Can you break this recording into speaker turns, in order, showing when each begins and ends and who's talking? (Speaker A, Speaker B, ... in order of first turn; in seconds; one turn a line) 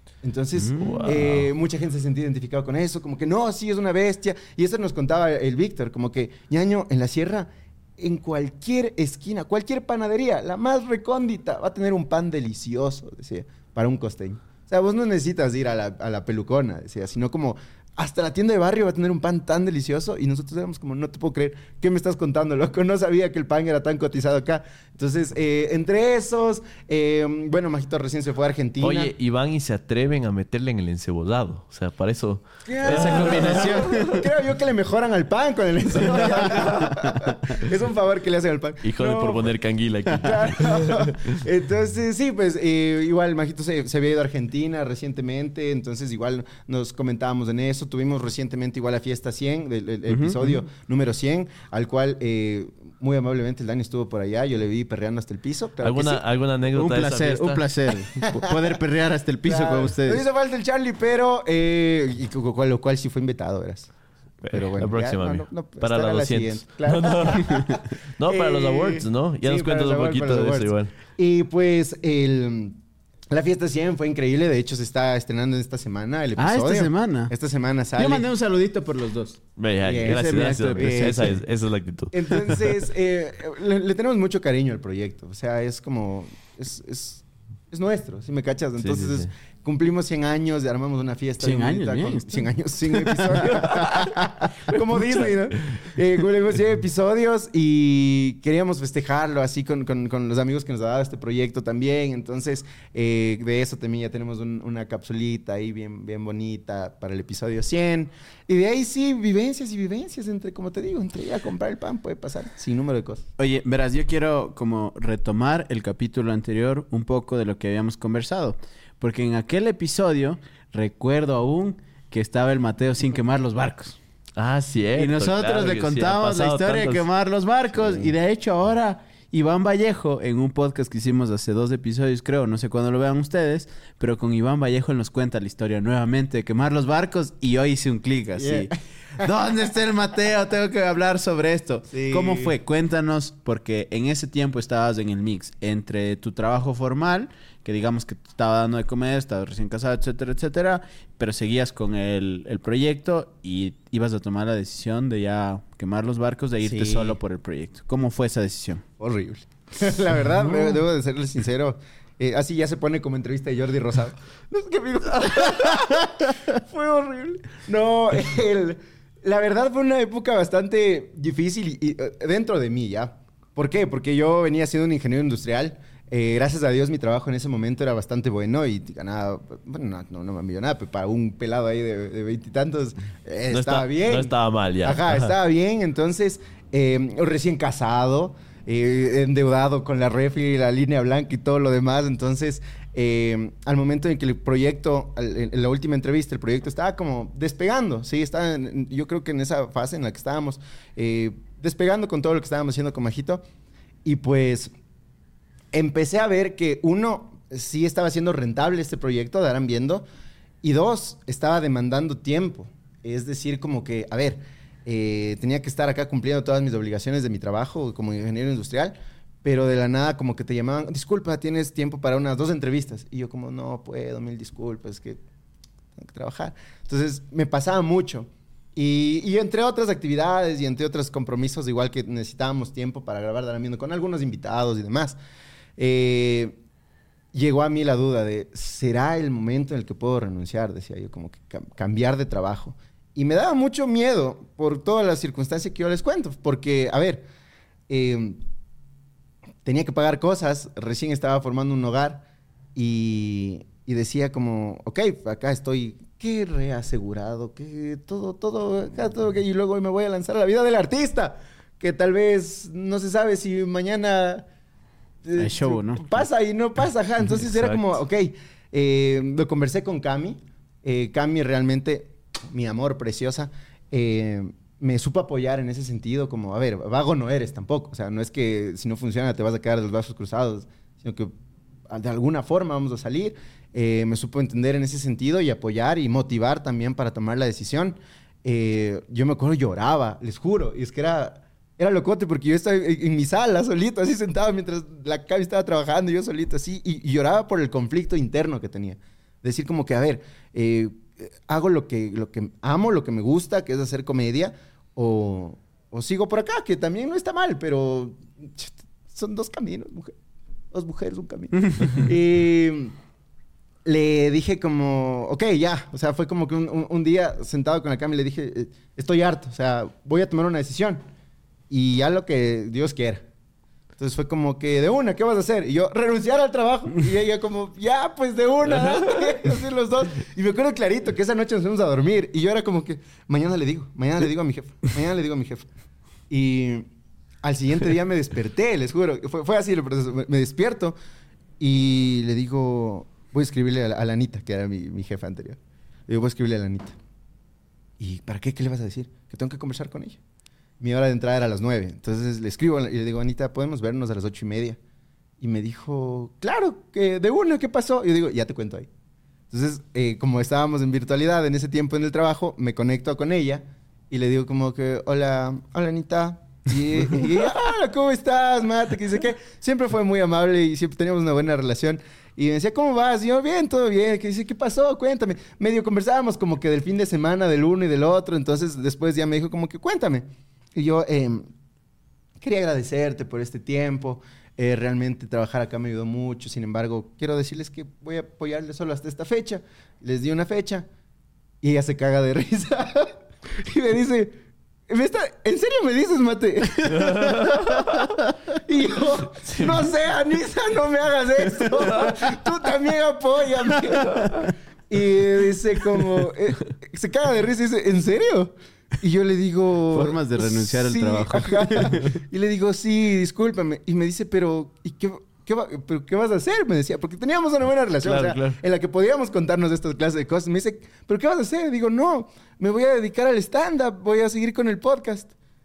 Speaker A: 0.2-29.1
Speaker B: 0.6-1.2
Speaker C: 0.8-1.5
Speaker C: 28.8-33.9
Speaker B: 32.7-34.3
Speaker A: 32.7-39.5
Speaker B: 36.2-37.3
Speaker C: 38.8-41.0
Speaker A: 40.1-56.2
Speaker B: 50.1-50.6
Speaker C: 55.8-57.6
Speaker B: 56.7-60.2
Speaker A: 58.3-58.8
Speaker A: 59.5-63.9
Speaker C: 64.4-70.9
Speaker A: 64.4-78.3
Speaker B: 76.4-77.3
Speaker B: 78.0-79.4
Speaker C: 79.6-82.6
Speaker A: 79.8-81.3
Speaker B: 80.0-81.4
Speaker A: 82.1-113.2
Speaker C: 88.8-89.3
Speaker B: 91.4-94.5
Speaker B: 113.4-124.0
Speaker C: 124.4-127.1
Speaker B: 125.0-158.8
Speaker A: 138.4-139.3
Speaker A: 141.9-142.5
Speaker A: 156.6-157.2
Speaker A: 159.0-203.4
Speaker B: 160.4-160.8
Speaker C: 183.5-185.3
Speaker A: 204.1-204.7
Speaker A: 205.7-210.1
Speaker A: 210.6-225.2
Speaker A: 226.0-235.2
Speaker A: 235.8-236.6
Speaker A: 237.3-247.3
Speaker A: 247.9-248.4
Speaker A: 249.7-264.5
Speaker A: 265.2-281.3
Speaker B: 265.4-266.3
Speaker C: 267.5-267.8
Speaker A: 281.9-310.1
Speaker A: 310.7-312.9
Speaker B: 311.6-312.1
Speaker A: 313.9-321.0
Speaker A: 321.7-323.3
Speaker A: 324.0-335.7
Speaker A: 336.3-336.9
Speaker A: 337.4-340.9
Speaker A: 341.6-347.0
Speaker A: 348.0-350.2
Speaker A: 350.8-354.8
Speaker A: 355.4-358.9
Speaker A: 359.5-381.5
Speaker A: 382.4-390.9
Speaker A: 391.6-394.4
Speaker A: 394.9-425.3
Speaker C: 396.9-398.1
Speaker C: 399.4-399.8
Speaker B: 409.9-412.2
Speaker C: 418.0-418.6